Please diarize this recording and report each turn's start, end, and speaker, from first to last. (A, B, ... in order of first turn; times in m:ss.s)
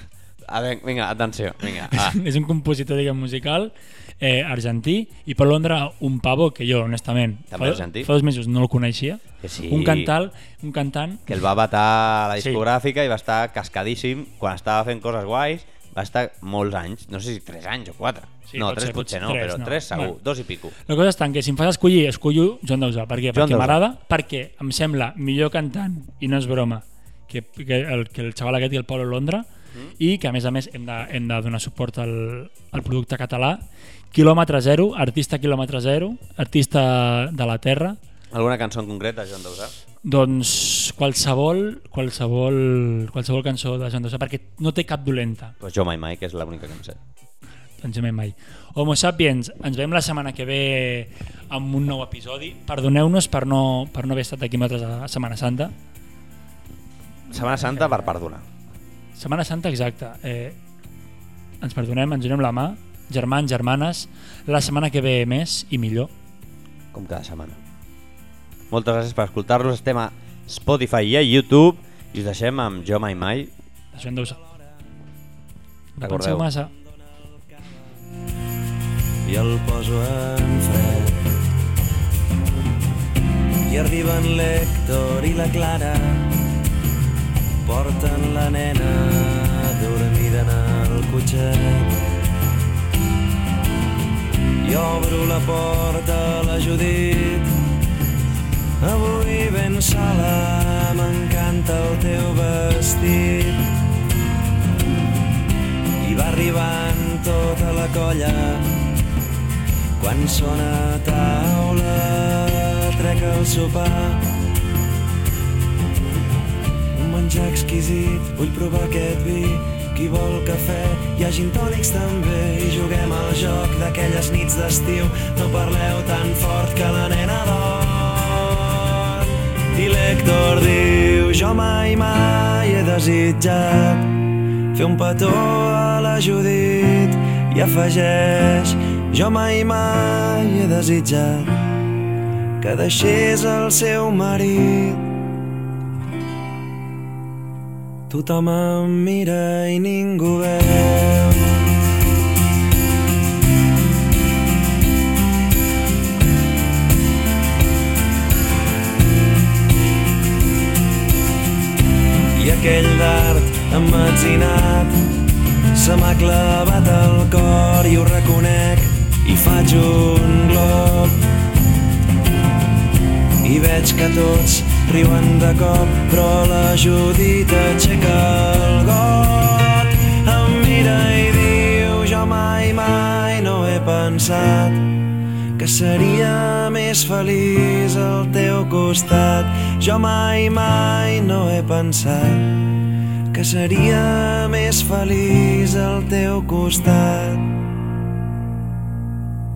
0:00.5-0:02.2 A
0:01.9-0:11.3 B
0:07.5-0:08.1 A
0:09.4-0:10.1 A
0:11.3-0:20.7 A
0:12.4-0:12.6 B
0:18.5-0:20.1 B
0:20.8-0:29.5 B
0:23.3-0:23.8 A
0:30.0-0:38.0 B
0:38.3-0:39.7 A
0:40.0-0:45.6 B
0:45.6-0:47.0 A
0:47.8-0:55.7 B
0:57.3-0:58.4 A
0:57.4-0:58.1 B
0:59.1-1:00.6 B
1:01.6-1:06.1 B
1:06.9-1:07.6 A
1:08.7-1:13.5 A
1:13.9-1:14.4 B
1:16.0-1:16.7 B
1:16.0-1:16.5 A
1:19.2-1:21.3 C
1:23.6-1:26.4 C
1:27.6-1:32.0 C
1:34.6-1:37.5 C
1:38.8-1:43.7 C
1:46.0-1:48.7 C
1:50.0-1:54.2 C
1:56.9-2:14.1 C
2:14.7-2:21.6 C
2:22.6-2:25.1 C
2:28.1-2:31.5 C
2:42.3-2:45.0 C
2:45.7-2:51.2 C
2:53.4-3:04.9 C
3:05.6-3:12.6 C
3:13.3-3:17.5 C